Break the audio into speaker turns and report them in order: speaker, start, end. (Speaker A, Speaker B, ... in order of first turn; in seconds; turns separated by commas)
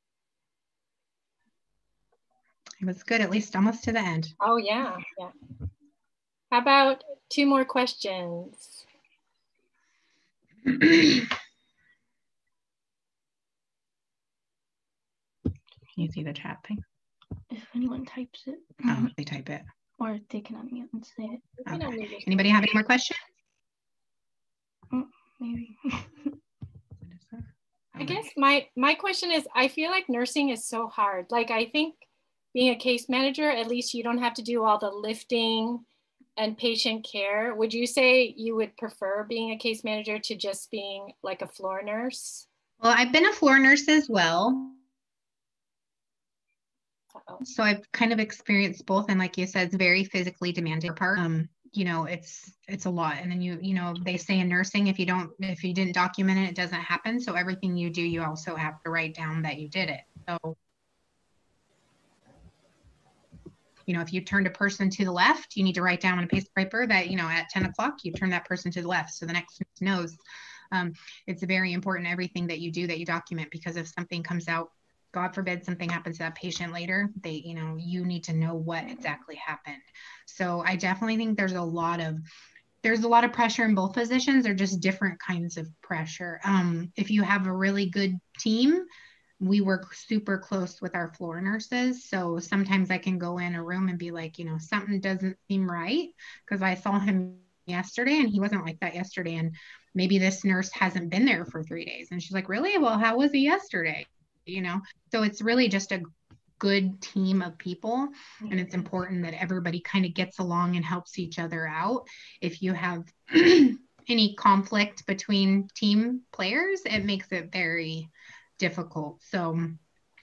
Speaker A: 2.8-4.3, Speaker B: 4.4-5.3, Speaker B: 6.5-8.8, Speaker A: 10.6-11.3, Speaker A: 15.9-16.8, Speaker C: 17.5-19.1, Speaker A: 18.9-19.7, Speaker C: 20.0-21.4, Speaker B: 21.6-22.7, Speaker A: 21.7-23.2, Speaker C: 24.9-26.4, Speaker A: 27.0-28.2, Speaker B: 28.0-35.8, Speaker B: 36.4-42.5, Speaker A: 42.8-44.8, Speaker A: 47.4-60.6, Speaker A: 63.9-70.2, Speaker A: 70.7-82.2, Speaker A: 82.8-88.9, Speaker A: 89.4-106.0, Speaker A: 106.6-119.8, Speaker B: 108.4-108.8